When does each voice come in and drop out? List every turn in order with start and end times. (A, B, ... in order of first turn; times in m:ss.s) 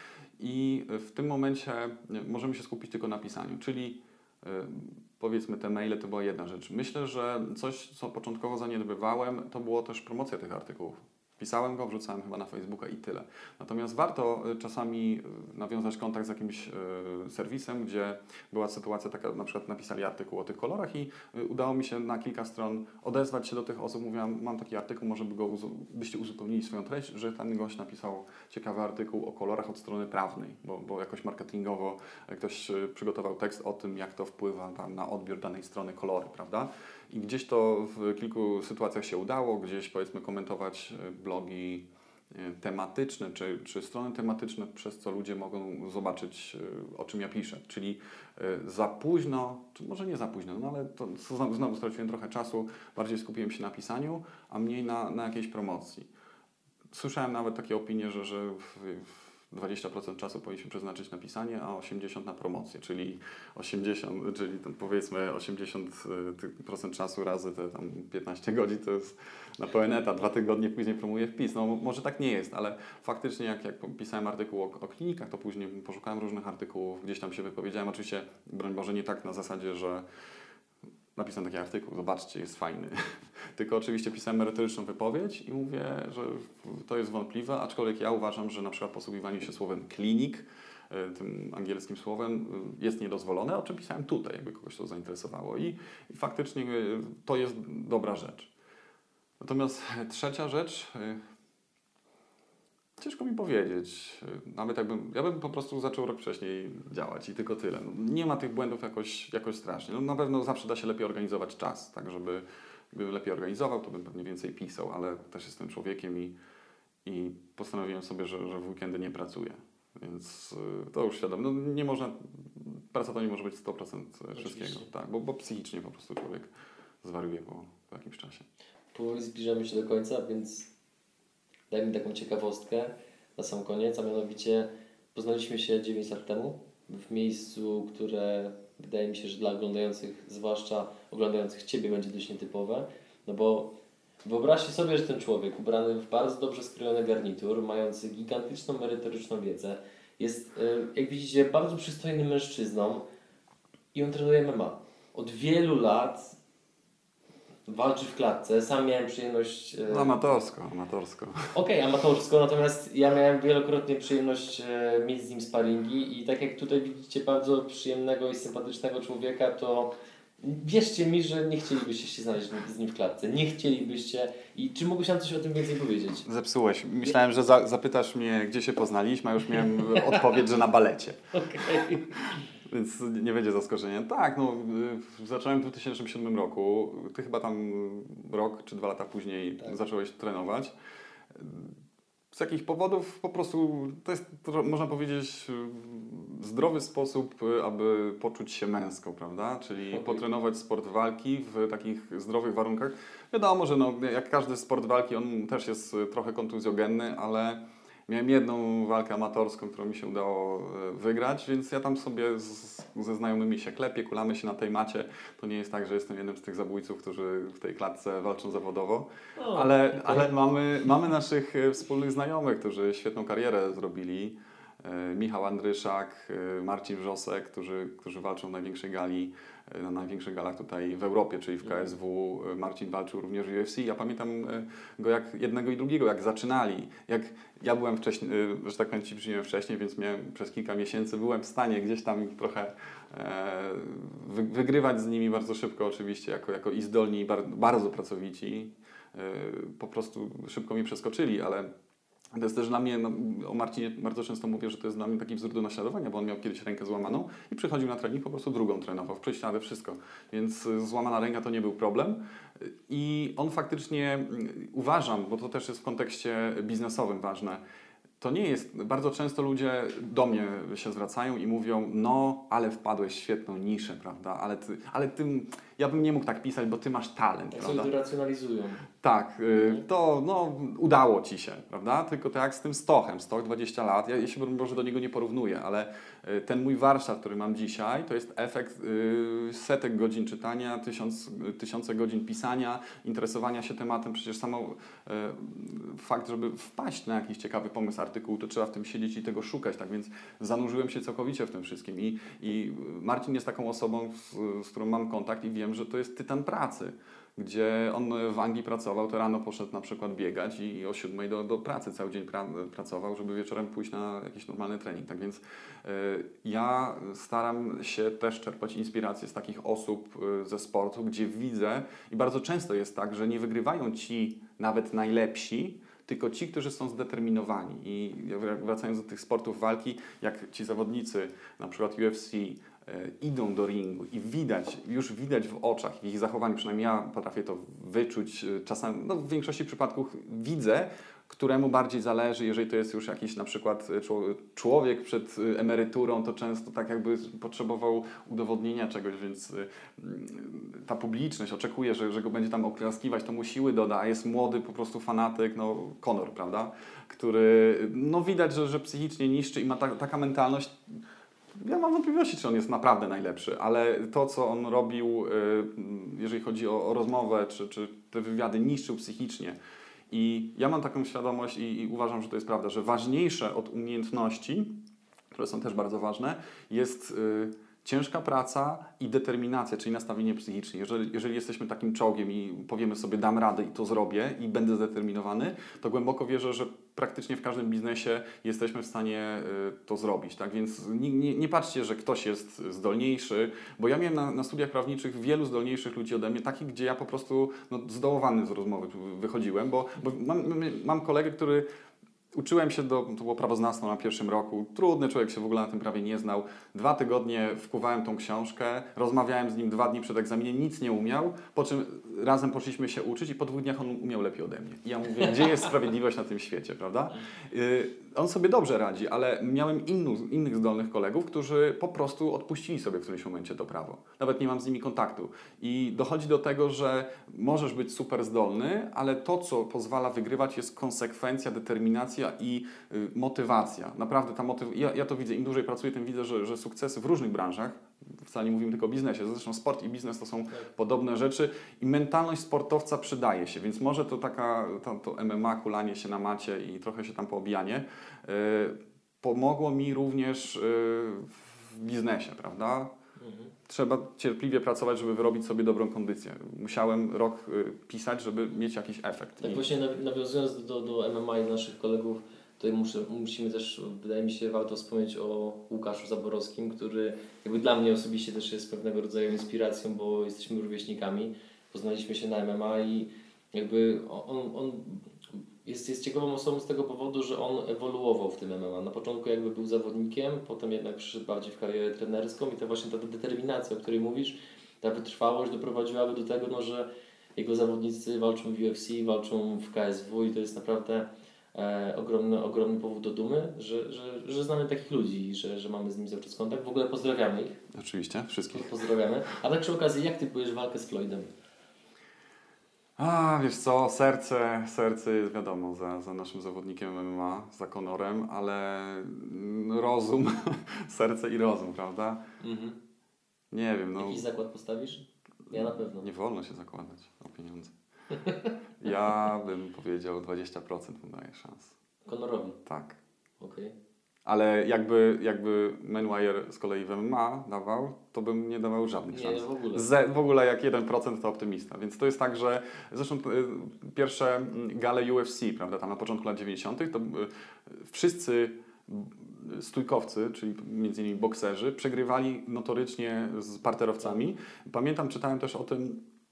0:00.4-0:56.1 A
0:56.9-1:20.0 A
1:21.2-1:38.5 A
1:39.4-1:41.2 A
1:43.0-1:56.3 A
1:57.0-2:06.5 A
2:04.3-2:04.9 B
2:07.0-2:08.5 A
2:08.9-2:10.7 B
2:11.7-2:33.1 B
2:33.9-2:36.4 B
2:37.7-2:40.2 B
2:39.9-2:41.5 A
2:41.5-2:56.3 B
2:56.3-3:10.7 A
2:59.6-3:00.4 B
3:01.3-3:02.3 B
3:11.3-3:11.8 A
3:12.3-4:11.7 A
3:19.9-3:20.2 B
3:39.4-3:40.3 B
4:12.3-4:27.6 A
4:28.2-4:37.9 A
4:37.5-4:38.9 B
4:39.0-6:00.8 A
4:39.6-4:39.8 B
6:01.6-6:09.6 A
6:10.1-6:14.8 A
6:15.3-6:41.6 A
6:42.4-7:32.9 A
7:33.2-7:33.6 B
7:33.7-7:39.6 A
7:39.4-8:17.6 B
8:17.7-8:18.7 A
8:18.5-8:21.3 B
8:23.0-8:32.2 A
8:32.4-8:32.8 B
8:33.5-8:34.2 A
8:34.0-8:36.1 B
8:35.5-8:37.7 A
8:38.1-8:38.6 B
8:38.8-8:41.8 A
8:42.1-8:42.6 B
8:42.7-8:43.0 A
8:43.4-8:43.8 B
8:44.2-9:06.0 A
8:49.1-8:49.9 B